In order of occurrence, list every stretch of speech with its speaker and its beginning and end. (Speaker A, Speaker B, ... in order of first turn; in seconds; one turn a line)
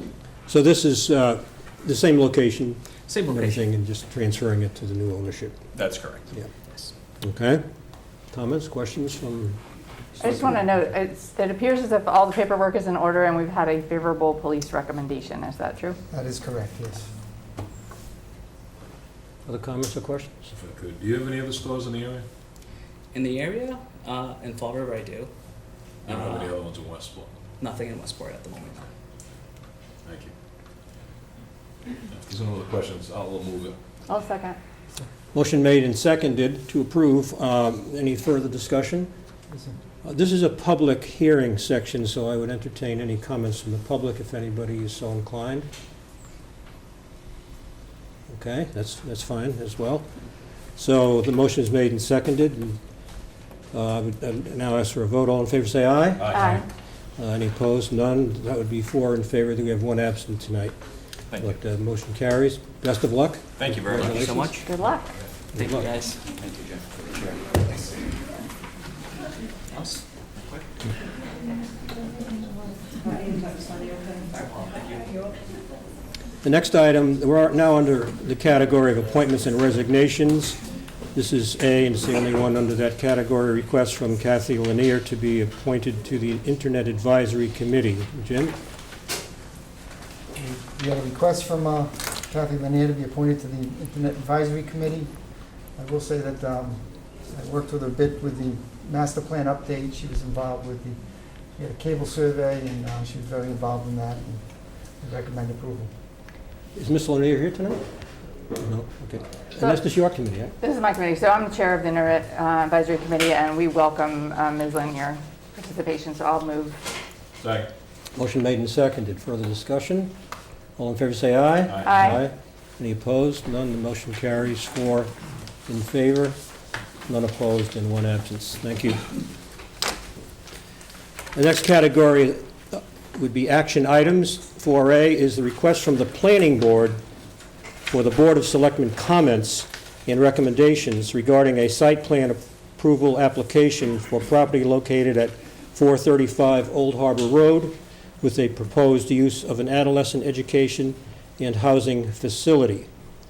Speaker A: 0.5-5.6
Speaker B: 3.1-3.6
Speaker C: 5.8-6.3
Speaker A: 7.2-7.6
Speaker A: 8.3-9.6
Speaker D: 10.2-16.0
Speaker A: 10.2-10.7
Speaker E: 16.1-17.1
Speaker A: 19.5-20.4
Speaker F: 20.5-22.3
Speaker B: 23.1-25.3
Speaker F: 26.1-27.3
Speaker B: 26.1-26.6
Speaker B: 27.6-28.9
Speaker F: 30.1-30.3
Speaker F: 32.1-33.8
Speaker D: 34.1-34.6
Speaker A: 35.3-39.1
Speaker A: 40.0-45.7
Speaker A: 48.3-50.1
Speaker A: 50.8-52.8
Speaker A: 53.7-56.4
Speaker C: 56.2-56.6
Speaker D: 56.3-56.6
Speaker A: 57.2-60.8
Speaker C: 61.3-61.6
Speaker A: 61.4-64.7
Speaker C: 63.6-64.4
Speaker B: 64.0-64.7
Speaker D: 64.5-65.1
Speaker A: 65.5-65.9
Speaker B: 65.6-66.2
Speaker C: 66.3-67.7
Speaker C: 69.7-70.7
Speaker A: 76.4-80.6
Speaker A: 81.1-88.6
Speaker E: 90.3-95.2
Speaker E: 95.8-105.9
Speaker A: 106.7-107.8
Speaker A: 108.6-110.5
Speaker D: 110.6-116.8
Speaker F: 117.4-117.7
Speaker A: 118.2-120.1
Speaker A: 120.8-125.1
Speaker F: 121.7-122.2
Speaker D: 121.8-122.2
Speaker A: 125.7-126.4
Speaker A: 127.1-129.1
Speaker A: 131.3-137.0
Speaker A: 137.9-152.9